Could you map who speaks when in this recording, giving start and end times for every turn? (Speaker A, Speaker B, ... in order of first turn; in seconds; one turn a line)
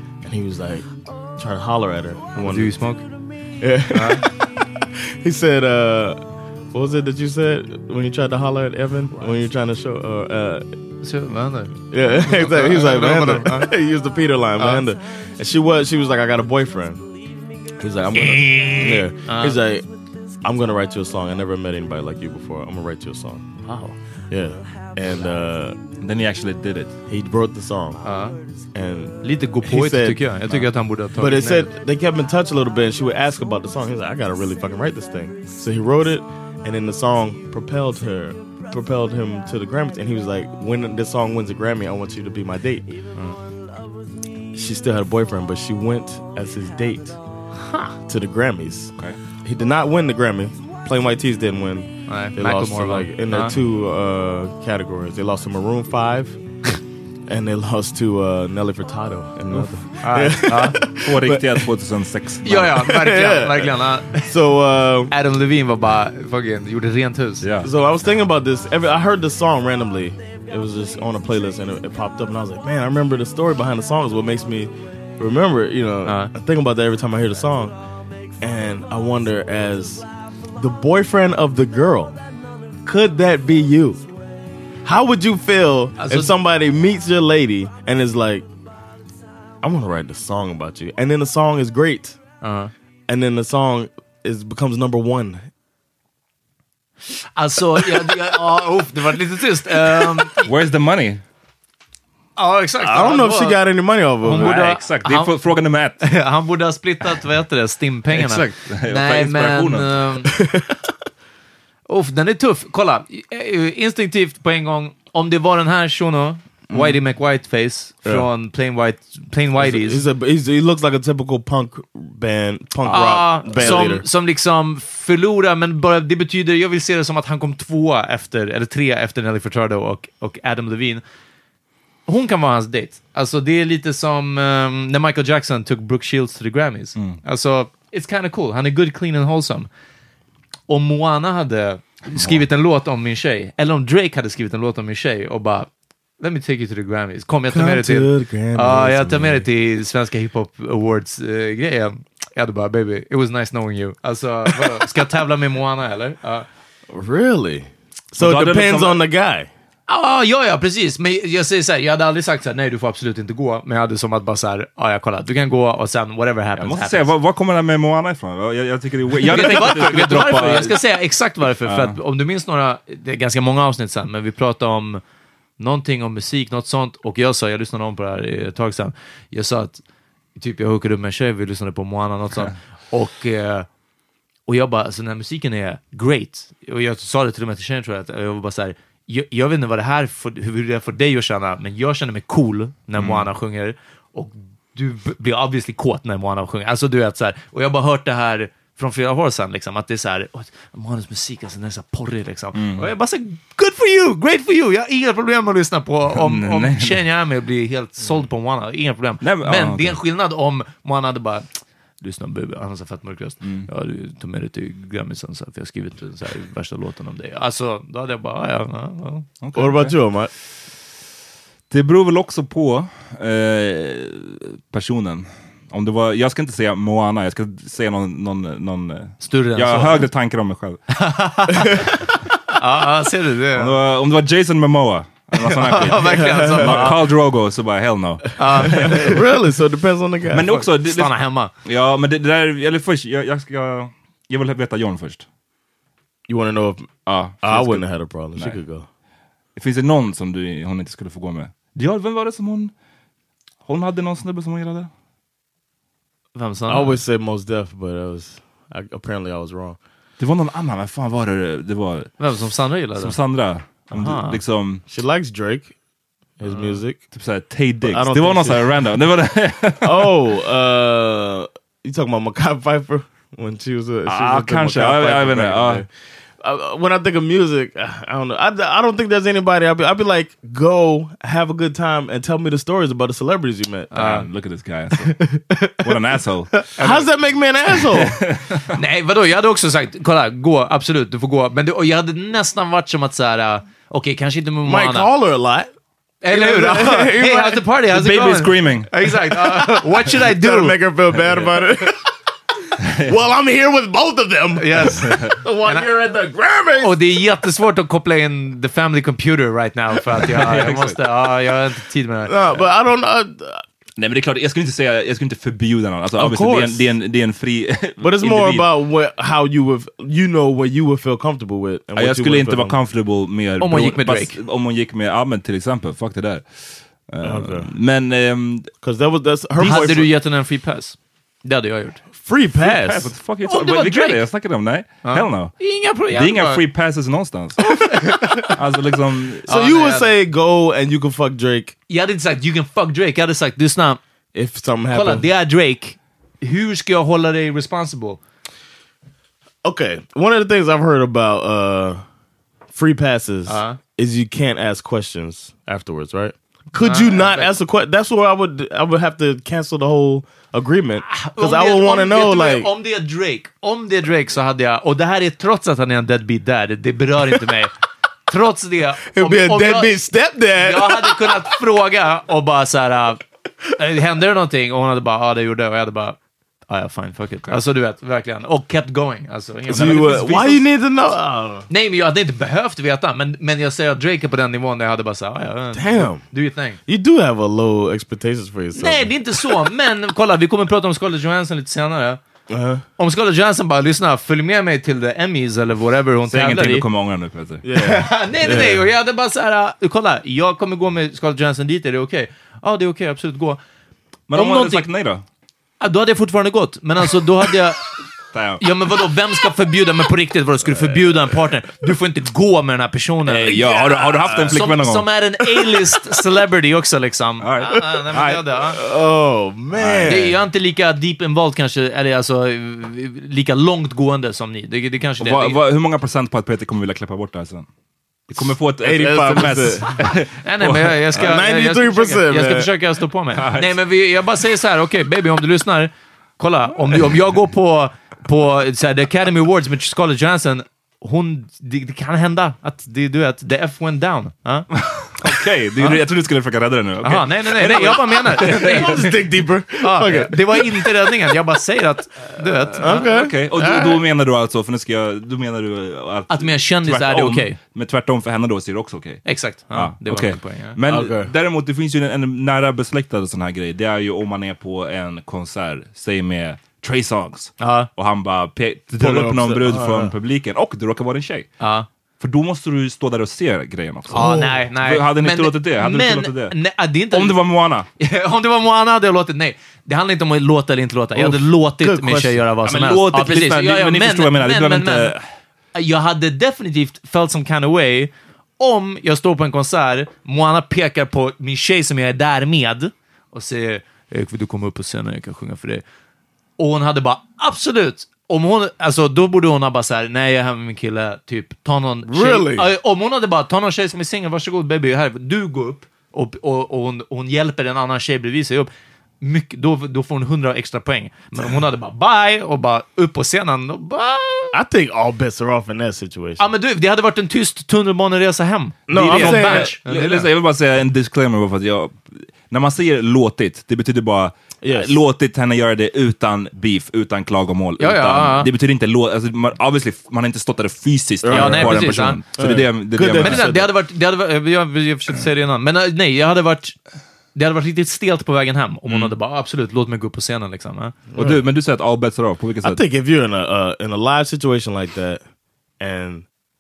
Speaker A: 0.2-0.8
Speaker A: 1.4-2.8
Speaker B: 2.4-3.0
Speaker A: 3.6-6.2
Speaker B: 3.9-4.3
Speaker A: 6.7-10.7
Speaker B: 11.0-13.7
Speaker A: 11.9-17.1
Speaker B: 14.6-14.8
Speaker A: 17.8-19.9
Speaker B: 18.1-19.6
Speaker A: 20.4-23.4
Speaker B: 23.6-23.9
Speaker A: 24.3-25.8
Speaker C: 26.0-26.9
Speaker A: 27.1-28.0
Speaker B: 28.0-28.4
Speaker A: 28.7-30.2
Speaker B: 29.2-31.7
Speaker A: 31.1-43.0
Speaker A: 44.5-47.2
Speaker B: 47.6-47.9
Speaker A: 48.0-61.7
Speaker B: 52.1-53.5
Speaker B: 60.0-60.8
Speaker C: 61.0-62.7
Speaker B: 62.4-64.3
Speaker A: 62.5-65.1
Speaker B: 65.1-67.4
Speaker C: 67.4-67.7
Speaker A: 67.6-77.8
Speaker B: 76.0-76.3
Speaker A: 78.4-82.2
Speaker A: 82.8-84.0
Speaker A: 84.8-88.5
Speaker B: 86.0-86.3
Speaker A: 89.6-92.2
Speaker B: 92.4-92.7
Speaker A: 93.1-95.5
Speaker B: 97.3-100.5
Speaker C: 100.4-101.2
Speaker B: 102.4-103.6
Speaker A: 102.8-104.6
Speaker B: 104.2-105.3
Speaker C: 104.3-106.0
Speaker B: 106.0-110.3
Speaker C: 108.2-110.0
Speaker A: 110.2-110.9
Speaker B: 111.9-120.0
Speaker A: 116.7-117.0
Speaker A: 119.6-124.0
Speaker B: 122.9-131.0
Speaker C: 123.5-123.9
Speaker B: 132.1-139.7
Speaker B: 140.7-156.4
Speaker C: 142.1-142.4
Speaker A: 147.5-149.4
Speaker A: 156.9-159.5
Speaker C: 158.2-159.0
Speaker B: 159.9-167.1
Speaker C: 166.6-170.8
Speaker B: 169.2-175.0
Speaker C: 171.6-172.0
Speaker B: 175.6-179.8
Speaker B: 180.4-183.7
Speaker B: 184.5-211.5
Speaker C: 193.0-193.3
Speaker C: 202.5-202.9
Speaker C: 206.1-207.0
Speaker C: 209.2-210.0
Speaker B: 212.0-219.3
Speaker C: 213.4-213.7
Speaker C: 219.4-219.9
Speaker A: 219.5-220.3
Speaker C: 221.7-230.8
Speaker B: 229.2-230.0
Speaker B: 230.9-232.0
Speaker B: 232.5-233.7
Speaker C: 233.5-239.1
Speaker B: 235.4-237.0
Speaker A: 236.0-236.9
Speaker B: 238.4-239.2
Speaker A: 238.8-240.5
Speaker C: 240.3-245.2
Speaker B: 240.5-241.5
Speaker A: 246.3-246.9
Speaker C: 247.1-248.6
Speaker A: 247.4-248.9
Speaker C: 249.6-252.7
Speaker C: 253.6-254.9
Speaker B: 256.3-257.0
Speaker A: 256.7-259.8
Speaker C: 260.2-262.2
Speaker B: 262.2-263.1
Speaker C: 262.9-264.8
Speaker B: 263.9-264.4
Speaker A: 264.9-265.7
Speaker A: 266.4-267.0
Speaker C: 267.1-270.1
Speaker A: 267.8-268.9
Speaker A: 269.8-275.9
Speaker C: 274.1-275.8
Speaker A: 276.4-284.1
Speaker C: 283.9-285.2
Speaker B: 283.9-284.2
Speaker A: 285.3-285.9
Speaker C: 285.8-286.6
Speaker A: 286.7-288.2
Speaker B: 286.8-287.1
Speaker C: 287.9-288.7
Speaker B: 288.7-295.1
Speaker A: 294.6-295.7
Speaker B: 296.2-300.8
Speaker A: 296.3-297.6
Speaker C: 297.9-298.9
Speaker A: 299.3-302.0
Speaker C: 301.2-301.5
Speaker C: 302.8-303.1
Speaker A: 303.0-306.9
Speaker B: 304.6-305.9
Speaker C: 305.0-305.3
Speaker B: 306.8-312.4
Speaker C: 310.2-311.0
Speaker A: 312.2-313.6
Speaker C: 314.0-318.7
Speaker A: 316.1-316.9
Speaker A: 318.0-322.8
Speaker C: 321.9-328.7
Speaker B: 323.6-324.4
Speaker A: 327.2-327.7
Speaker A: 328.8-330.1
Speaker B: 329.6-332.0
Speaker A: 332.1-333.1
Speaker C: 332.6-335.5
Speaker B: 333.4-334.2
Speaker B: 335.0-336.6
Speaker C: 336.1-337.8
Speaker B: 337.7-338.5
Speaker C: 338.4-339.4
Speaker A: 339.4-341.7
Speaker B: 339.5-340.1
Speaker B: 341.9-344.0
Speaker A: 344.3-345.3
Speaker B: 344.9-348.2
Speaker A: 349.6-352.0
Speaker A: 352.7-362.7
Speaker B: 353.5-353.8
Speaker B: 356.8-357.5
Speaker B: 361.1-367.7
Speaker B: 368.3-370.0
Speaker A: 369.1-371.5
Speaker B: 370.6-376.2
Speaker B: 376.7-380.6
Speaker A: 379.7-381.7
Speaker B: 381.7-386.8
Speaker A: 385.7-386.2
Speaker A: 386.9-389.1
Speaker B: 388.7-392.2
Speaker A: 392.5-392.8
Speaker B: 393.0-396.8
Speaker C: 396.3-397.6
Speaker A: 397.6-398.8
Speaker B: 397.7-403.6
Speaker C: 404.3-405.2
Speaker B: 404.3-404.9
Speaker B: 405.8-407.8
Speaker C: 408.3-408.6
Speaker B: 408.6-418.8
Speaker C: 413.2-415.1
Speaker A: 413.7-414.6
Speaker A: 415.6-415.9
Speaker C: 417.4-418.4
Speaker A: 418.7-420.3
Speaker C: 419.8-420.3
Speaker B: 420.1-425.6
Speaker C: 425.2-427.7
Speaker C: 428.3-431.2
Speaker A: 428.4-429.9
Speaker B: 430.4-444.7
Speaker A: 431.1-432.7
Speaker C: 433.4-433.8
Speaker C: 444.8-448.9
Speaker B: 447.0-449.1
Speaker A: 448.4-451.3
Speaker B: 449.8-453.1
Speaker A: 452.8-454.0
Speaker C: 452.9-471.5
Speaker B: 456.3-457.6
Speaker B: 459.2-460.8
Speaker A: 460.9-461.3
Speaker B: 467.6-467.9
Speaker A: 469.0-470.1
Speaker B: 471.6-471.9
Speaker C: 472.2-476.6
Speaker B: 474.1-477.4
Speaker A: 474.1-474.6
Speaker C: 477.1-477.9
Speaker B: 478.0-485.1
Speaker A: 481.1-482.4
Speaker C: 482.6-485.2
Speaker B: 485.7-495.8
Speaker B: 496.6-508.7
Speaker A: 502.1-502.7
Speaker B: 509.2-514.6
Speaker A: 514.5-516.4
Speaker B: 516.4-520.3
Speaker A: 518.9-519.7
Speaker C: 518.9-533.5
Speaker A: 524.6-524.9
Speaker B: 527.8-528.5
Speaker A: 531.2-533.7
Speaker B: 531.3-532.2
Speaker B: 533.1-536.8
Speaker B: 537.3-541.0
Speaker C: 538.9-539.1
Speaker A: 541.1-541.4
Speaker C: 541.1-542.8
Speaker A: 542.6-545.2
Speaker A: 545.8-546.2